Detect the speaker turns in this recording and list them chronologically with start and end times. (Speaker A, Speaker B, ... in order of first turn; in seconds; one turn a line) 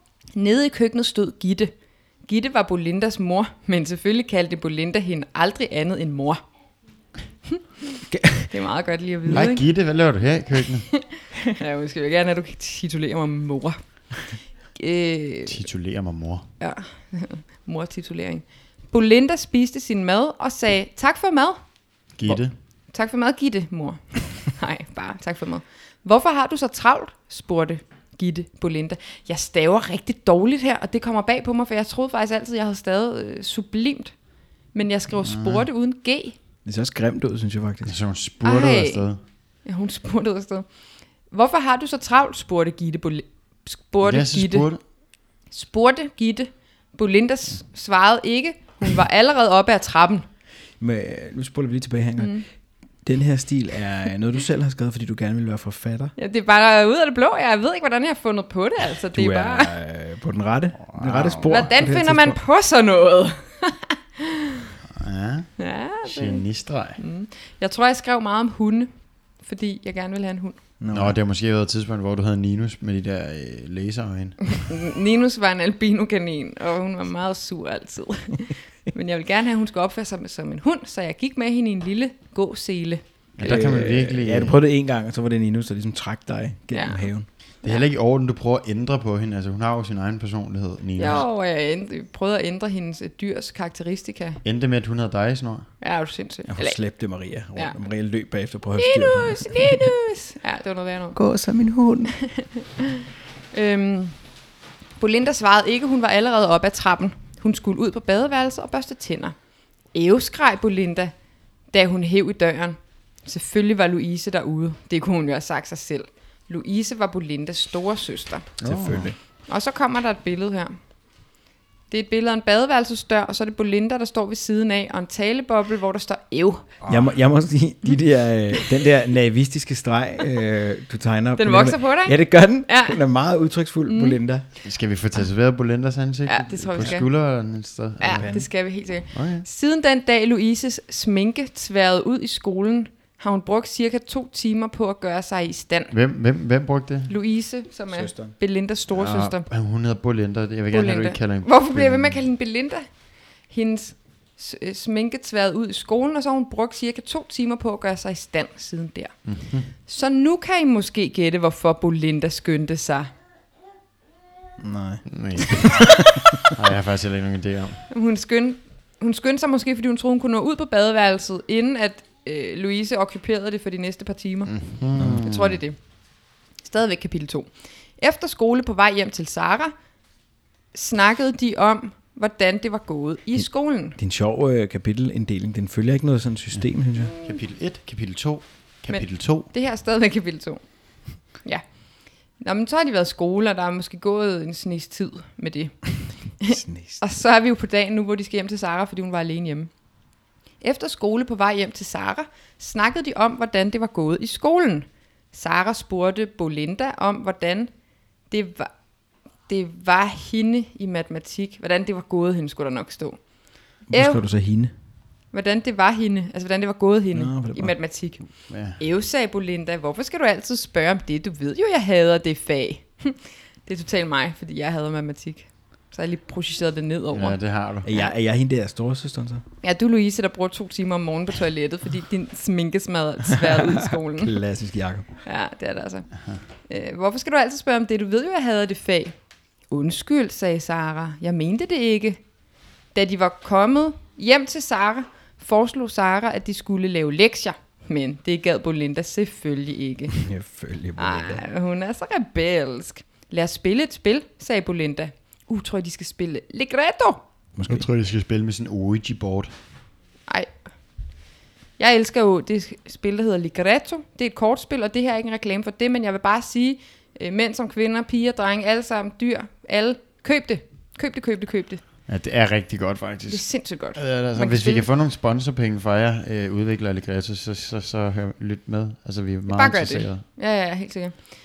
Speaker A: 0.3-1.7
Speaker A: 2.3-6.4
Speaker A: 7.5-9.7
Speaker B: 8.1-8.5
Speaker C: 9.3-10.9
Speaker A: 10.9-13.8
Speaker A: 14.8-15.6
Speaker C: 15.5-16.5
Speaker A: 16.6-21.6
Speaker C: 22.2-22.5
Speaker A: 22.9-34.1
Speaker A: 34.7-36.4
Speaker C: 35.2-35.7
Speaker B: 36.6-38.0
Speaker C: 37.9-39.2
Speaker A: 38.4-39.0
Speaker A: 39.7-40.7
Speaker A: 41.3-44.7
Speaker C: 44.0-44.8
Speaker A: 45.5-50.3
Speaker B: 50.8-52.4
Speaker A: 52.2-52.5
Speaker B: 53.0-56.1
Speaker A: 56.2-59.7
Speaker B: 59.1-62.4
Speaker C: 60.9-61.7
Speaker A: 61.4-64.7
Speaker C: 64.9-65.5
Speaker A: 65.6-66.5
Speaker C: 66.1-67.0
Speaker A: 67.0-68.9
Speaker A: 69.4-70.6
Speaker B: 70.8-71.2
Speaker C: 70.9-74.6
Speaker A: 74.5-83.0
Speaker C: 83.4-84.6
Speaker B: 83.4-87.3
Speaker A: 86.7-87.1
Speaker C: 87.6-91.2
Speaker A: 91.0-94.4
Speaker C: 94.4-95.7
Speaker A: 95.8-96.8
Speaker B: 96.5-99.9
Speaker A: 98.8-101.2
Speaker B: 101.2-102.1
Speaker A: 102.1-104.2
Speaker A: 105.0-109.3
Speaker A: 109.9-111.1
Speaker A: 111.7-118.5
Speaker C: 118.6-119.1
Speaker B: 118.6-119.2
Speaker A: 119.5-120.8
Speaker A: 121.9-126.7
Speaker C: 126.8-127.1
Speaker B: 126.9-134.4
Speaker A: 131.4-133.0
Speaker A: 133.9-134.2
Speaker C: 134.6-138.5
Speaker A: 136.3-137.1
Speaker A: 138.0-145.9
Speaker B: 138.1-138.4
Speaker C: 139.1-139.4
Speaker C: 145.9-147.1
Speaker A: 147.1-149.5
Speaker B: 147.9-148.3
Speaker C: 148.9-152.2
Speaker A: 150.7-152.8
Speaker A: 153.5-159.1
Speaker C: 159.2-159.7
Speaker A: 159.9-163.1
Speaker B: 164.6-166.4
Speaker C: 165.1-167.9
Speaker A: 167.9-174.5
Speaker C: 174.5-175.6
Speaker B: 175.0-175.2
Speaker A: 175.2-175.8
Speaker A: 176.6-179.7
Speaker A: 180.7-184.0
Speaker B: 184.0-187.2
Speaker C: 187.2-189.5
Speaker A: 188.9-190.6
Speaker A: 192.4-199.7
Speaker B: 196.5-197.0
Speaker A: 200.6-207.7
Speaker A: 208.3-208.7
Speaker A: 209.5-213.2
Speaker B: 213.9-214.7
Speaker A: 213.9-214.2
Speaker A: 215.3-218.2
Speaker B: 217.2-217.7
Speaker C: 218.5-218.8
Speaker A: 218.8-227.4
Speaker C: 227.1-227.9
Speaker B: 227.8-229.4
Speaker A: 229.6-234.4
Speaker B: 234.2-235.1
Speaker A: 235.2-236.1
Speaker A: 236.7-239.2
Speaker A: 239.7-242.2
Speaker A: 242.9-250.2
Speaker B: 250.1-251.4
Speaker A: 251.0-257.2
Speaker B: 257.6-257.9
Speaker C: 257.7-259.5
Speaker A: 261.8-271.8
Speaker C: 272.1-280.2
Speaker A: 273.3-274.9
Speaker A: 279.5-281.2